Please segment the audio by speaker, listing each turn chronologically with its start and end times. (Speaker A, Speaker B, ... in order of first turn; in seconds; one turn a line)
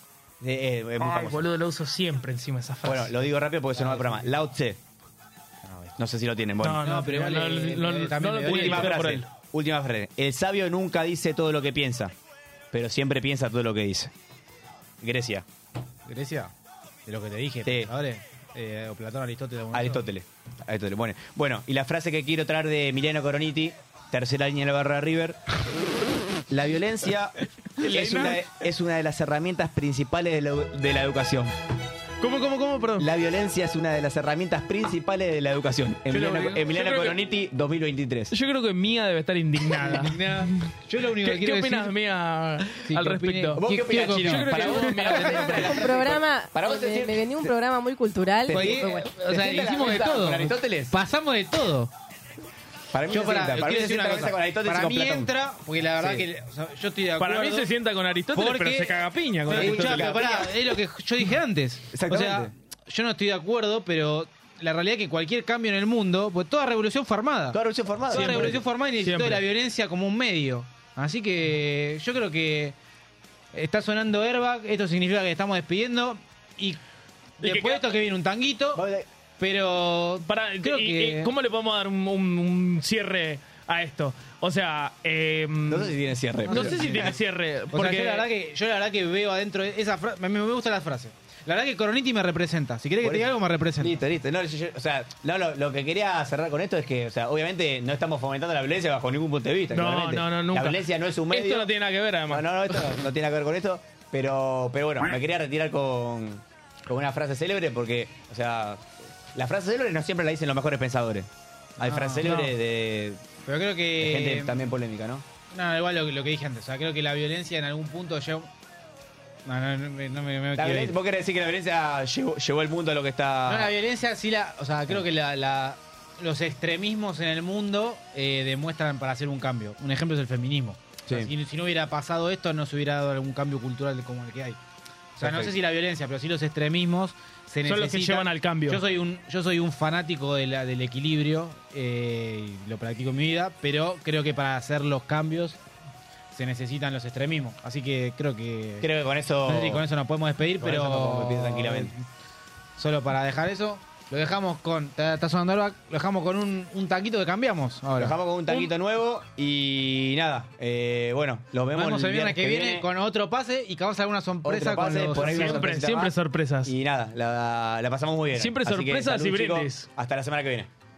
Speaker A: 0.4-1.4
Speaker B: 1.0-3.2
Speaker A: 2.8-4.8
Speaker C: 3.7-4.3
Speaker C: 5.6-5.9
Speaker A: 6.0-6.8
Speaker B: 6.6-9.3
Speaker C: 6.8-9.1
Speaker A: 8.4-12.1
Speaker A: 12.7-14.1
Speaker A: 15.0-15.4
Speaker C: 16.1-16.5
Speaker C: 17.1-20.0
Speaker A: 17.6-17.9
Speaker A: 19.7-25.4
Speaker A: 26.5-31.6
Speaker B: 27.8-28.5
Speaker B: 32.2-33.1
Speaker A: 33.0-38.3
Speaker B: 36.1-37.2
Speaker B: 38.3-46.0
Speaker C: 39.8-41.9
Speaker C: 42.7-45.5
Speaker A: 43.5-47.5
Speaker D: 45.6-49.1
Speaker A: 48.4-51.0
Speaker C: 48.5-51.9
Speaker A: 52.9-55.3
Speaker C: 53.1-57.7
Speaker A: 56.0-56.3
Speaker B: 57.2-60.2
Speaker C: 58.3-67.6
Speaker A: 59.5-60.7
Speaker A: 61.9-62.5
Speaker A: 67.5-68.6
Speaker C: 68.1-72.8
Speaker B: 68.1-69.4
Speaker C: 73.5-76.8
Speaker C: 77.4-78.8
Speaker B: 77.4-77.8
Speaker A: 78.7-79.1
Speaker C: 79.4-81.3
Speaker B: 80.3-88.3
Speaker A: 85.7-87.1
Speaker C: 86.5-87.1
Speaker C: 87.7-94.0
Speaker A: 93.0-101.7
Speaker B: 99.7-102.9
Speaker A: 102.3-113.2
Speaker C: 111.8-112.3
Speaker B: 112.2-112.5
Speaker C: 113.4-114.6
Speaker A: 114.0-115.2
Speaker C: 115.5-118.5
Speaker C: 119.5-121.0
Speaker A: 120.5-123.7
Speaker C: 123.5-134.6
Speaker C: 135.2-145.6
Speaker A: 135.2-135.5
Speaker B: 137.6-138.8
Speaker C: 146.3-148.9
Speaker A: 148.8-149.8
Speaker C: 149.4-152.0
Speaker A: 150.6-151.9
Speaker C: 152.8-158.2
Speaker A: 157.9-162.9
Speaker B: 158.5-158.7
Speaker C: 161.7-165.7
Speaker A: 164.4-170.7
Speaker B: 165.2-166.7
Speaker B: 168.3-169.9